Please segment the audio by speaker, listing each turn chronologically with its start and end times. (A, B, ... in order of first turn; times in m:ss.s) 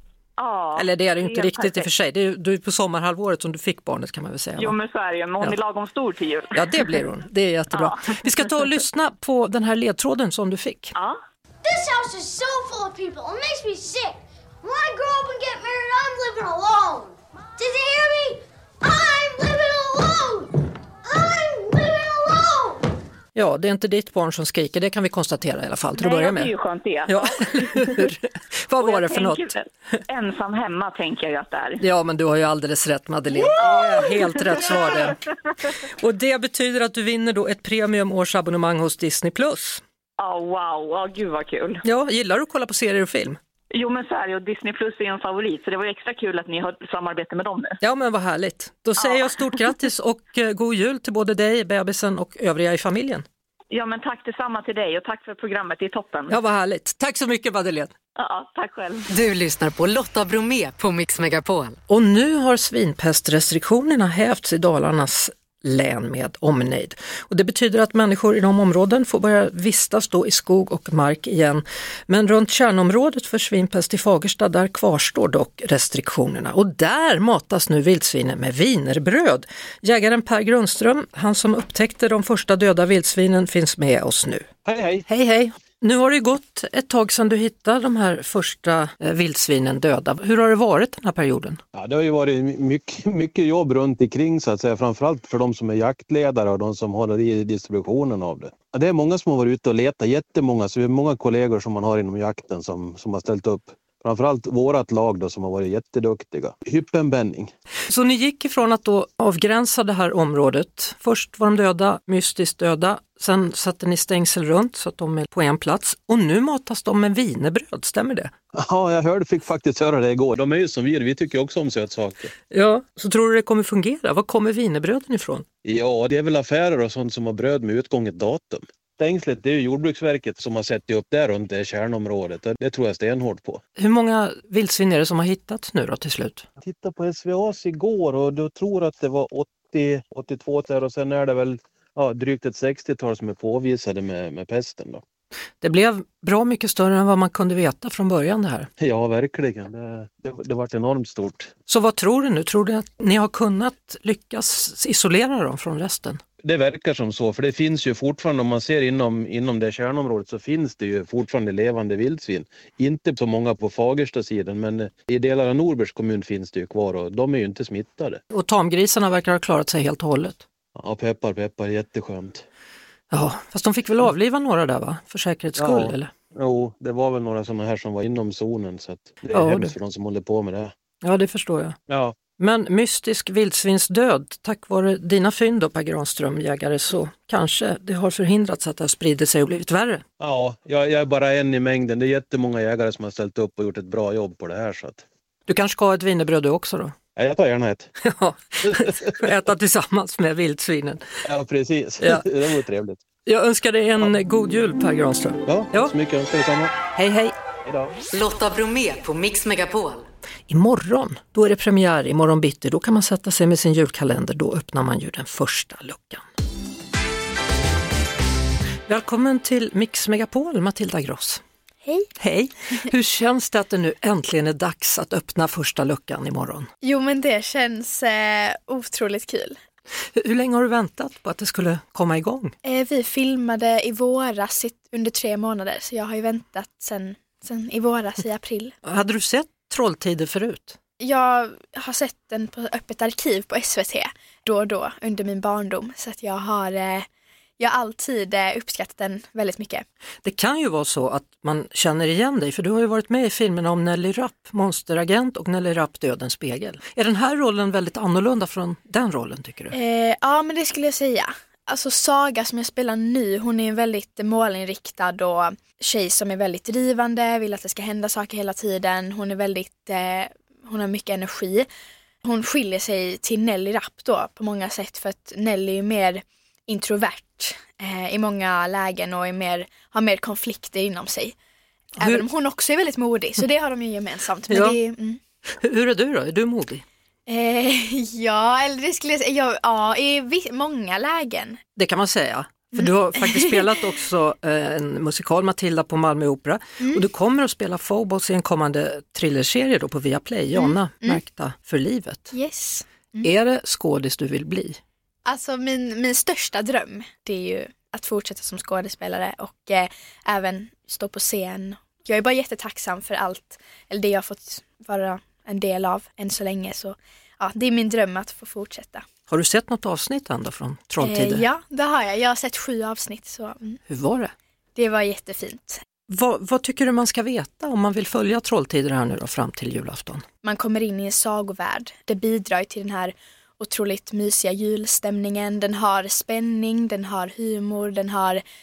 0:00.4-0:01.9 A
0:00.8-0:04.8 B
0:04.6-0:06.8 A
0:06.5-0:10.9 B
0:07.7-0:08.5 A
0:11.6-0:22.8 C
0:23.4-0:26.5 B
0:26.0-0:28.1 A
0:27.1-0:29.5 B
0:28.8-0:31.8 A
0:31.8-0:35.2 B
0:33.4-0:35.2 A
0:36.0-0:39.8 B
0:40.2-0:41.8 A
0:41.8-0:43.4 B
0:43.7-0:47.8 A
0:47.8-0:53.2 B
0:49.0-0:49.5 A
0:53.7-0:56.4 A
0:56.3-0:57.9 B
0:58.2-0:59.1 A
0:59.1-1:01.8 D
1:01.9-1:24.5 B
1:24.6-1:25.0 E
1:25.1-1:31.6 B
1:31.8-1:47.5 E
1:47.9-1:58.3 B
1:58.6-2:02.3 E
2:02.5-2:05.5 B
2:05.6-2:13.6 E
2:13.8-2:16.5 B
2:16.6-2:25.0 E
2:25.6-2:28.7 B
2:28.8-2:31.5 E
2:31.7-2:36.2 B
2:36.4-2:48.2 E
2:48.3-2:50.4 B
2:50.8-2:52.4 E
2:53.1-2:56.1 B
2:55.6-3:00.7 E
2:59.3-2:59.7 B
3:01.0-3:01.8 B
3:01.9-3:02.2 E
3:02.4-3:10.0 B
3:10.2-3:15.0 E
3:15.5-3:16.9 B
3:17.2-3:17.9 E
3:18.0-3:21.0 B
3:18.6-3:19.1 E
3:21.2-3:23.0 E
3:23.2-3:25.9 B
3:25.5-3:26.8 E
3:26.9-3:27.4 B
3:27.6-3:27.9 E
3:28.1-3:30.0 D
3:30.5-3:36.2 B
3:38.9-3:41.4 B
3:41.8-3:42.1 F
3:42.2-3:46.7 B
3:46.8-3:49.6 F
3:50.1-3:52.5 B
3:52.6-3:58.8 F
3:58.8-4:00.8 B
4:01.0-4:07.1 F
4:07.6-4:09.8 F
4:10.2-4:19.8 B
4:19.7-4:31.7 F
4:32.2-4:41.4 F
4:42.0-4:45.2 F
4:42.0-4:42.2 B
4:44.5-4:44.8 B
4:45.6-4:46.8 B
4:47.3-4:51.6 F
4:51.8-5:02.3 B
4:52.8-4:53.7 F
5:00.6-5:01.2 F
5:02.3-5:03.3 F
5:03.2-5:04.8 B
5:05.2-5:19.0 F
5:19.3-5:21.4 B
5:21.0-5:23.8 F
5:23.9-5:24.3 B
5:24.8-5:25.8 F
5:26.1-5:30.2 B
5:30.4-5:38.4 F